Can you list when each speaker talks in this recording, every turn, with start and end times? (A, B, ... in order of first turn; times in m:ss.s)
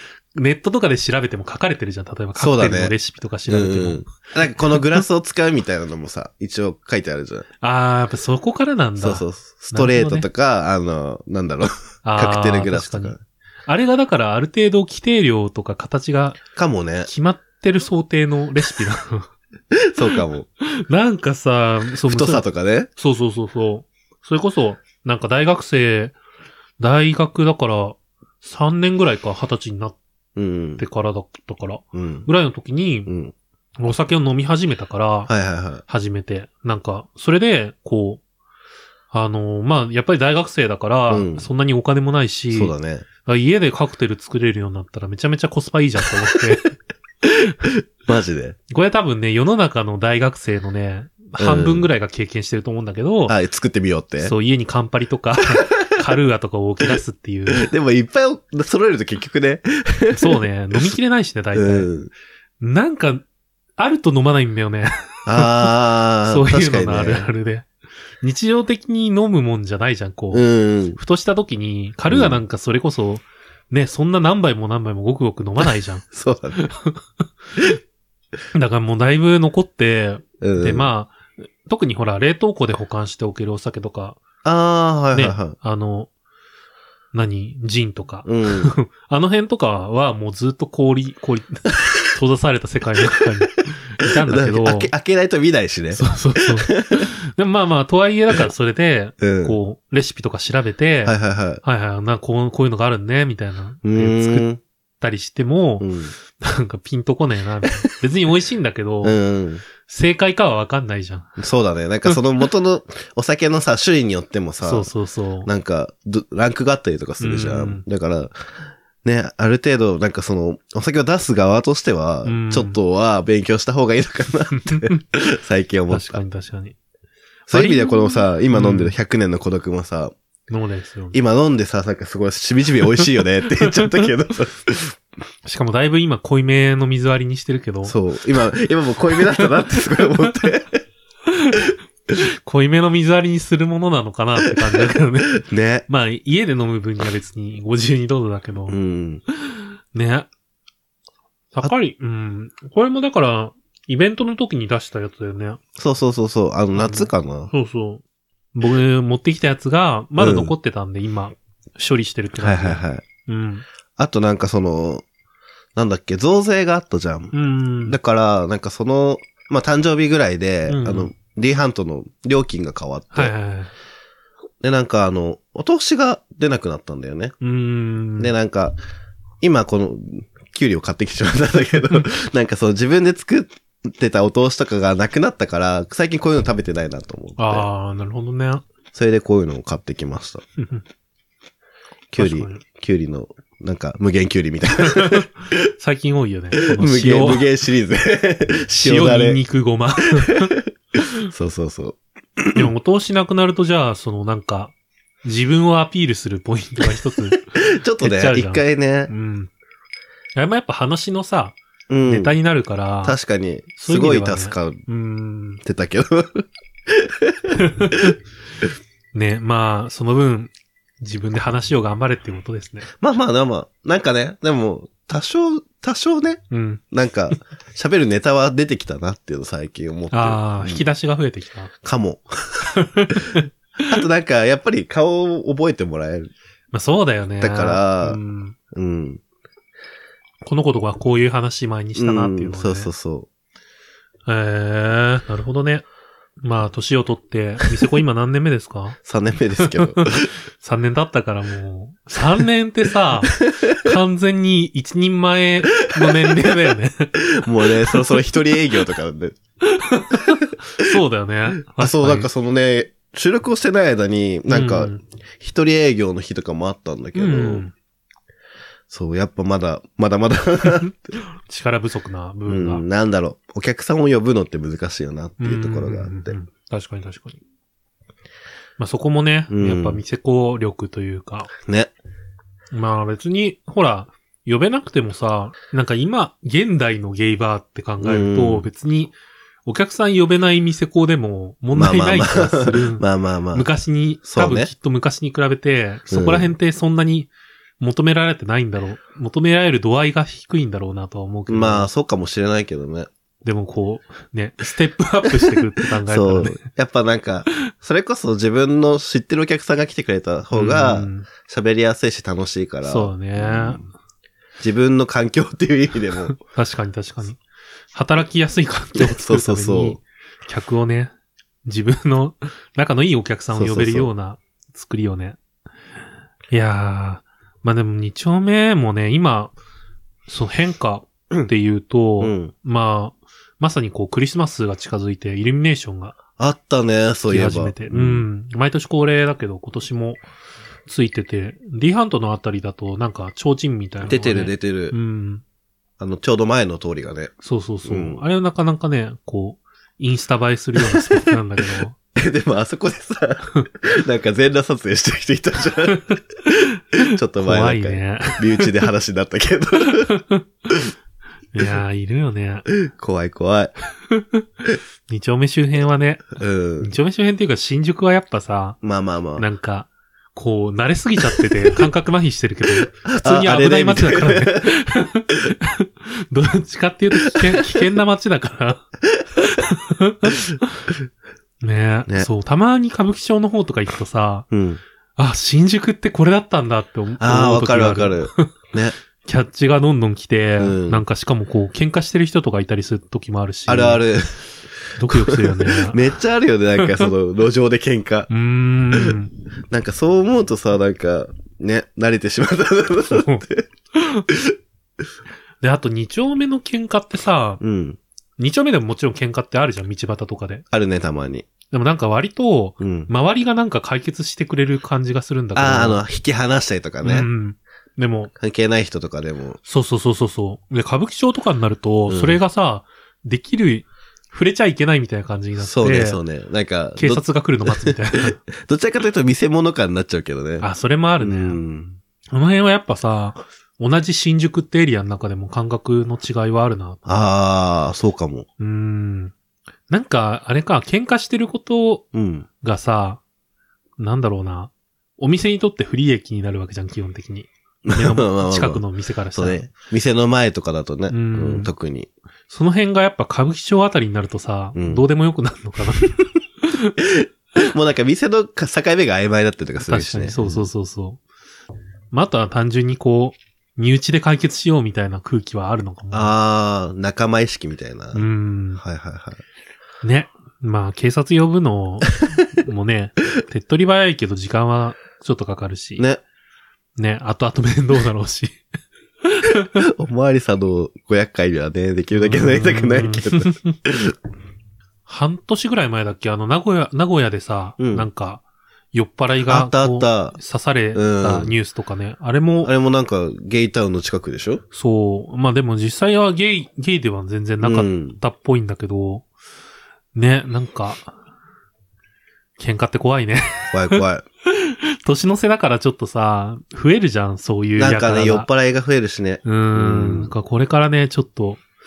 0:00.3-0:05.0 A
0:02.4-0:02.9 B
0:03.5-0:07.5 B
0:07.6-0:10.3 A
0:09.0-0:13.2 B
0:12.0-0:13.1 A
0:13.7-0:16.4 A
0:16.6-0:17.1 B
0:17.0-0:19.3 A
0:19.8-0:20.5 B
0:20.6-0:26.2 A
0:22.0-0:22.9 B
0:26.8-0:30.0 A
0:30.4-0:30.8 B
0:30.8-0:33.1 A
0:31.9-0:32.3 B
0:33.1-0:33.3 B
0:33.8-0:35.3 A
0:35.3-0:35.8 B
0:35.8-0:38.2 A
0:39.1-0:42.7 A
0:41.1-0:41.5 B
0:42.5-0:43.1 B
0:43.2-0:46.7 A
0:48.0-0:48.6 B
0:48.7-0:53.4 A
0:51.4-0:51.9 B
0:53.3-0:54.3 B
0:54.2-0:57.7 A
0:57.5-1:00.9 B
1:00.1-1:01.9 A
1:01.5-1:02.1 B
1:02.6-1:03.2 A
1:03.8-1:05.7 A
1:05.3-1:07.3 B
1:06.2-1:07.7 A
1:08.2-1:16.0 A
1:10.3-1:11.0 B
1:12.1-1:12.4 B
1:15.6-1:16.6 B
1:16.6-1:17.0 A
1:18.5-1:24.2 A
1:20.4-1:20.9 B
1:24.4-1:25.6 B
1:25.1-1:26.1 A
1:27.1-1:34.9 A
1:28.2-1:28.7 B
1:34.2-1:37.1 B
1:35.9-1:49.2 A
1:39.2-1:39.6 B
1:41.0-1:41.6 B
1:43.8-1:44.6 B
1:45.8-1:46.1 B
1:49.0-1:49.6 B
1:49.8-1:51.3 A
1:51.4-1:54.9 B
1:54.6-1:55.5 A
1:55.4-1:58.4 B
1:57.2-1:57.8 A
1:59.0-2:06.2 B
2:02.2-2:02.8 A
2:04.5-2:05.0 A
2:05.9-2:06.8 A
2:07.5-2:10.1 B
2:07.5-2:08.9 A
2:10.5-2:11.2 A
2:11.1-2:15.0 B
2:13.6-2:13.9 A
2:15.4-2:18.0 A
2:17.8-2:20.8 B
2:19.3-2:20.5 A
2:21.3-2:28.8 A
2:24.5-2:25.9 B
2:28.7-2:29.2 B
2:29.4-2:30.3 A
2:31.5-2:35.6 A
2:35.8-2:37.5 B
2:36.7-2:38.0 A
2:38.5-2:43.6 A
2:40.2-2:40.5 B
2:42.4-2:43.0 B
2:44.0-2:45.0 B
2:45.8-2:47.3 B
2:47.3-2:48.0 A
2:47.8-2:53.3 B
2:50.7-2:51.1 A
2:53.1-2:53.7 A
2:54.6-2:57.3 B
2:57.4-2:58.3 A
2:58.2-2:58.8 B
2:59.4-3:07.6 B
3:07.4-3:08.6 A
3:08.9-3:10.4 B
3:10.6-3:10.8 A
3:12.1-3:15.6 B
3:12.2-3:12.6 A
3:14.8-3:17.5 A
3:16.6-3:19.4 B
3:18.8-3:21.0 A
3:20.3-3:20.6 B
3:21.3-3:22.7 B
3:22.5-3:29.5 A
3:26.9-3:29.1 B
3:30.3-3:33.1 A
3:31.9-3:32.3 B
3:33.0-3:34.8 B
3:33.8-3:35.6 A
3:35.6-3:38.1 B
3:37.6-3:38.1 A
3:39.1-3:42.9 A
3:43.0-3:50.8 B
3:46.5-3:46.8 A
3:50.1-3:51.7 A
3:51.8-3:52.7 B
3:52.8-3:53.4 A
3:53.9-3:56.3 B
3:56.7-3:58.6 A
3:57.4-3:58.2 B
3:58.7-3:59.2 B
4:00.4-4:02.9 A
4:02.0-4:03.3 B
4:04.2-4:05.8 A
4:06.4-4:09.0 A
4:09.0-4:10.3 B
4:09.6-4:18.9 A
4:13.3-4:13.9 B
4:16.0-4:16.5 B
4:17.3-4:19.4 B
4:19.6-4:22.3 A
4:21.7-4:27.6 B
4:24.5-4:25.0 A
4:27.1-4:27.7 A
4:28.9-4:30.9 B
4:30.6-4:32.8 A
4:32.5-4:36.4 B
4:35.4-4:37.4 A
4:38.8-4:41.5 A
4:39.5-4:40.0 B
4:41.7-4:41.9 B
4:42.7-5:01.9 A
4:48.0-4:48.7 B
4:51.7-4:53.7 B
4:54.2-4:54.7 B
4:56.1-4:56.5 B
5:01.5-5:03.1 B
5:03.4-5:06.6 A
5:06.0-5:13.8 B
5:10.5-5:11.3 A
5:12.8-5:13.8 A
5:14.6-5:16.3 B
5:16.2-5:17.4 A
5:17.9-5:21.1 A
5:18.9-5:20.0 B
5:21.6-5:25.4 A
5:23.5-5:24.1 B
5:26.5-5:29.5 A
5:30.3-5:36.2 A
5:32.2-5:32.5 B
5:36.4-5:38.2 B
5:37.3-5:40.2 A
5:40.8-5:45.4 A
5:44.0-5:44.9 B
5:46.0-5:47.3 B
5:47.4-5:51.9 A
5:47.8-5:48.2 B
5:50.8-5:51.4 B
5:52.2-5:56.0 B
5:55.9-5:56.2 A
5:56.9-5:58.7 A
5:57.0-6:00.1 B
5:59.8-6:00.4 A
6:01.5-6:02.7 A
6:02.7-6:03.7 B
6:04.1-6:04.4 A
6:05.1-6:08.8 A
6:06.4-6:06.9 B
6:08.8-6:09.4 B
6:09.4-6:18.8 A
6:12.8-6:14.7 B
6:17.3-6:17.8 B
6:19.4-6:20.8 A
6:21.6-6:24.4 A
6:24.5-6:24.8 B
6:25.2-6:28.5 A
6:27.2-6:28.9 B
6:29.2-6:34.0 A
6:30.6-6:31.0 B
6:33.7-6:34.4 B
6:35.0-6:38.3 B
6:35.0-6:36.0 A
6:36.8-6:37.1 A
6:38.3-6:39.3 A
6:39.7-6:43.6 B
6:43.1-6:43.4 A
6:43.9-6:44.2 A
6:45.6-6:47.6 A
6:47.6-6:48.0 B
6:48.4-6:50.6 A
6:50.7-6:51.5 B
6:51.7-6:56.0 A
6:52.8-6:53.1 B
6:55.5-6:57.3 B
6:57.0-6:58.3 A
6:58.4-6:59.6 B
6:59.6-7:06.2 A
7:02.1-7:02.4 B
7:05.6-7:10.7 B
7:07.0-7:08.3 A
7:10.6-7:11.6 A
7:11.2-7:12.0 B
7:12.3-7:17.0 A
7:17.0-7:18.5 B
7:18.6-7:19.3 A
7:19.9-7:22.1 A
7:22.1-7:22.4 B
7:22.6-7:23.2 A
7:24.0-7:29.7 A
7:27.8-7:28.8 B
7:29.3-7:32.1 B
7:31.1-7:31.7 A
7:32.5-7:37.0 A
7:34.8-7:35.0 B
7:37.1-7:40.6 B
7:39.8-7:41.2 A
7:42.1-7:46.3 A
7:46.1-7:48.2 B
7:48.1-7:48.8 A
7:48.8-7:49.4 B
7:50.0-7:56.0 A
7:57.0-7:58.6 A
7:59.2-7:59.8 A
7:59.8-8:04.1 B
8:02.1-8:03.8 A
8:05.0-8:12.7 A
8:07.8-8:08.1 B
8:09.4-8:10.4 B
8:10.9-8:11.5 B
8:12.6-8:14.6 B
8:14.7-8:19.2 A
8:17.6-8:18.2 B
8:20.1-8:21.1 A
8:22.6-8:24.0 A
8:23.7-8:24.2 B
8:24.5-8:28.5 A
8:27.8-8:30.3 B
8:29.4-8:31.6 A